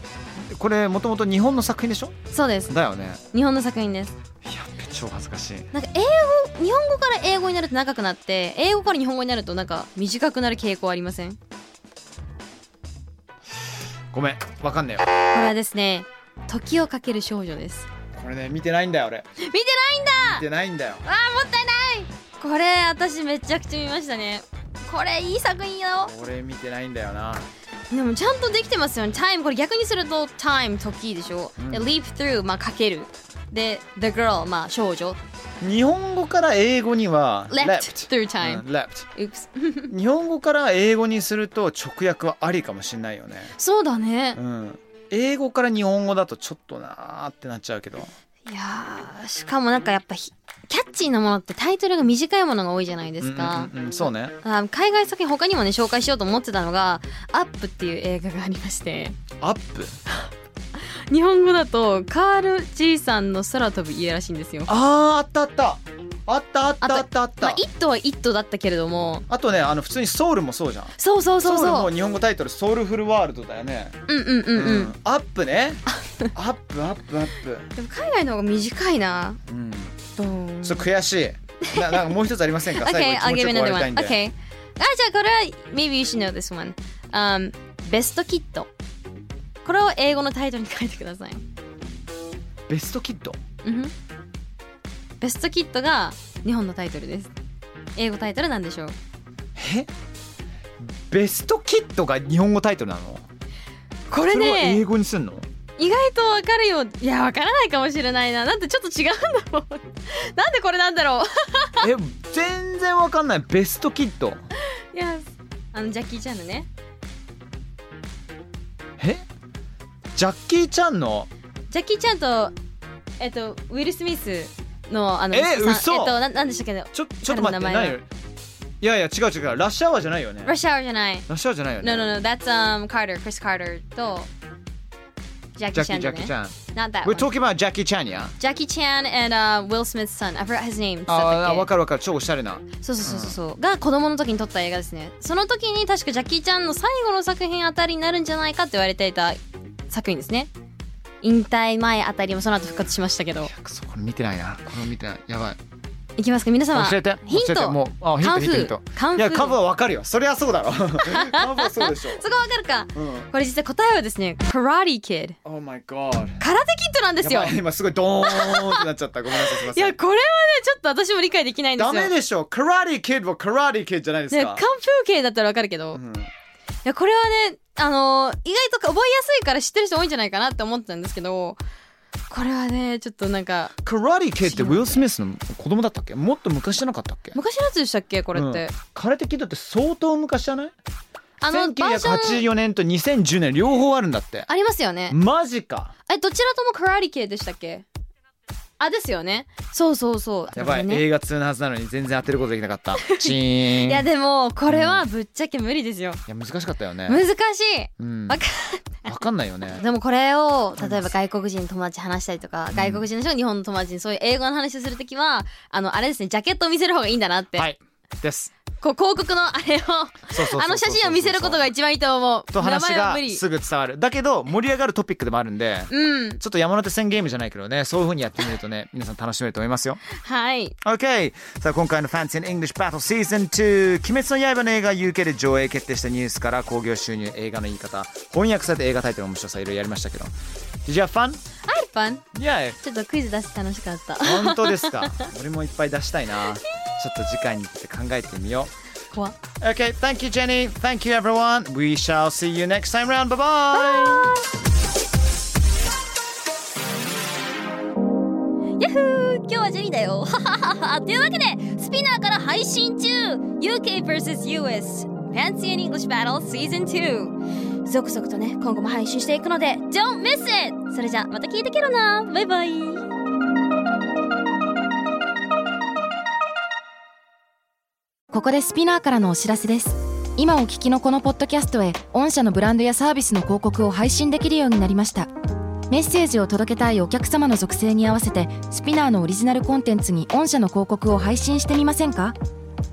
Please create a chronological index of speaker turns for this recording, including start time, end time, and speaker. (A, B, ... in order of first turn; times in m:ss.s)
0:00.4-0:02.1 A
0:02.3-0:04.2 B
0:02.7-0:03.2 A
0:04.4-0:05.7 A
0:05.7-0:11.4 B
0:14.1-0:15.1 A
0:15.3-0:17.9 B
0:18.2-0:19.3 A
0:19.4-0:20.4 B
0:20.2-0:21.0 A
0:21.0-0:26.1 B
0:26.0-0:27.5 A
0:27.9-0:35.2 B
0:31.6-0:32.0 A
0:35.6-0:39.1 A
0:37.5-0:38.6 B
0:39.2-0:39.9 B
0:39.9-0:43.5 A
0:43.6-0:44.4 B
0:44.4-0:48.1 A
0:48.5-0:59.2 B
0:53.2-0:54.4 A
0:59.4-1:00.0 A
1:01.1-1:04.7 B
1:04.7-1:07.6 A
1:06.8-1:09.3 B
1:09.3-1:14.0 A
1:11.0-1:11.9 B
1:14.1-1:14.9 B
1:14.6-1:17.7 A
1:17.8-1:19.4 B
1:19.5-1:19.9 A
1:20.2-1:20.9 B
1:20.6-1:24.2 A
1:21.6-1:22.2 B
1:22.7-1:28.7 B
1:29.6-1:31.4 B
1:32.7-1:33.4 A
1:33.6-1:33.9 B
1:35.2-1:37.3 B
1:38.0-1:39.0 B
1:39.6-1:39.9 A
1:40.9-1:43.2 A
1:44.1-1:44.9 B
1:44.2-1:45.5 A
1:45.8-1:51.9 B
1:51.8-1:54.4 A
1:54.6-1:56.7 B
1:59.0-1:59.2 A
2:00.2-2:01.3 A
2:01.7-2:02.6 B
2:03.2-2:08.0 B
2:05.3-2:06.2 A
2:06.9-2:08.1 A
2:08.8-2:10.6 A
2:10.4-2:11.3 B
2:11.3-2:12.2 A
2:11.8-2:14.3 B
2:15.6-2:17.3 B
2:15.7-2:18.4 A
2:18.4-2:21.7 B
2:21.1-2:23.4 A
2:22.8-2:29.4 B
2:29.9-2:30.5 B
2:31.2-2:33.5 B
2:33.4-2:35.6 A
2:36.2-2:39.6 B
2:36.7-2:42.2 A
2:41.0-2:45.4 B
2:43.0-2:43.3 A
2:45.4-2:46.4 A
2:46.4-2:47.6 B
2:47.2-2:50.0 A
2:48.2-2:52.1 B
2:51.8-2:54.6 A
2:54.3-2:56.0 B
2:55.9-2:56.3 A
2:56.8-3:01.6 B
3:02.3-3:03.8 B
3:03.8-3:07.4 A
3:04.4-3:05.0 B
3:07.3-3:08.7 B
3:08.3-3:10.7 A
3:11.4-3:12.5 B
3:11.5-3:14.5 A
3:14.5-3:15.2 B
3:15.1-3:15.9 A
3:16.1-3:17.8 B
3:18.8-3:21.0 B
3:20.5-3:24.1 A
3:23.0-3:26.2 B
3:24.7-3:25.1 A
3:26.3-3:27.2 A
3:27.1-3:29.1 B
3:28.0-3:28.4 A
3:29.0-3:29.8 A
3:29.8-3:37.7 B
3:30.8-3:31.1 A
3:32.7-3:33.1 A
3:37.5-3:38.5 A
3:38.8-3:43.4 B
3:40.3-3:41.7 A
3:42.5-3:50.0 A
3:45.9-3:46.4 B
3:50.1-3:50.8 B
3:50.8-4:00.3 A
4:00.9-4:01.4 A
4:01.7-4:02.2 B
4:02.3-4:02.8 A
4:02.8-4:05.2 B
4:04.2-4:08.7 A
4:09.1-4:09.4 B
4:09.6-4:14.4 A
4:13.7-4:14.4 B
4:18.8-4:33.0 B
4:38.3-4:45.3 C
4:45.9-4:52.4 C